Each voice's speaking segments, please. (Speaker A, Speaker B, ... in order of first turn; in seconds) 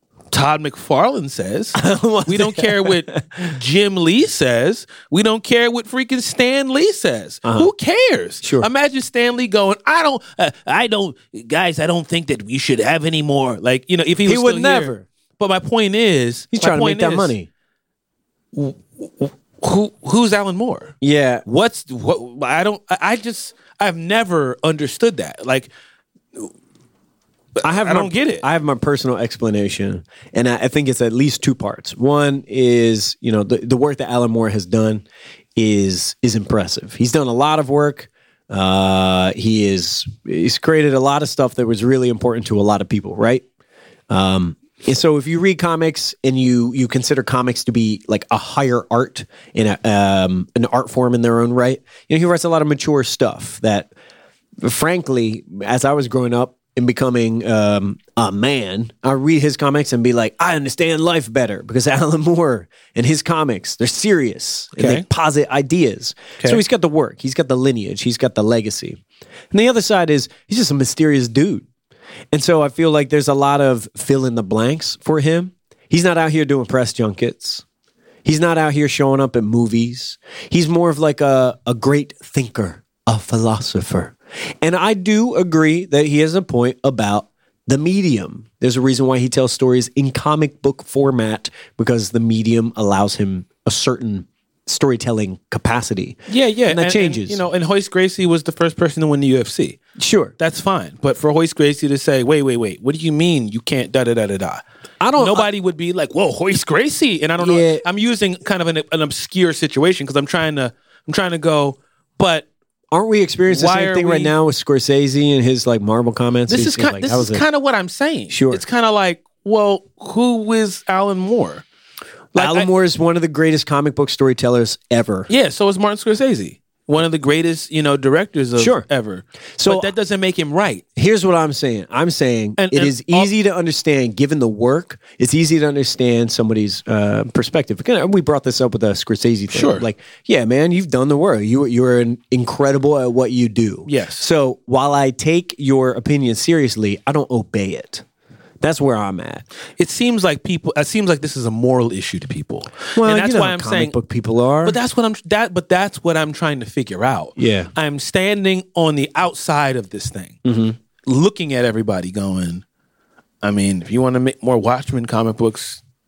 Speaker A: 0.3-17.3, 18.5-20.9, 21.4-25.7, 27.6-28.4, 64.8-65.0, 96.3-99.8, 100.4-104.6, 105.2-112.5, 113.5-114.3, 116.5-121.6, 122.3-122.7, 125.3-130.8, 132.6-133.3, 139.5-139.9, 143.9-144.3, 149.8-153.9, 154.6-160.4, 161.0-162.6, 163.4-165.8
Speaker B: 1.7-3.1, 8.4-8.7, 14.2-15.0, 16.5-17.5, 21.0-21.4, 27.6-35.0, 35.5-43.4, 44.1-53.9, 54.6-69.0, 69.5-71.7, 72.3-77.6, 78.2-97.4, 100.0-100.3, 105.0-105.5, 107.4-107.8, 112.9-117.4, 118.3-118.6, 122.3-125.3, 128.6-128.8, 129.6-129.9, 130.9-148.0, 148.6-149.4, 152.9-154.8, 157.4-157.7, 160.4-160.8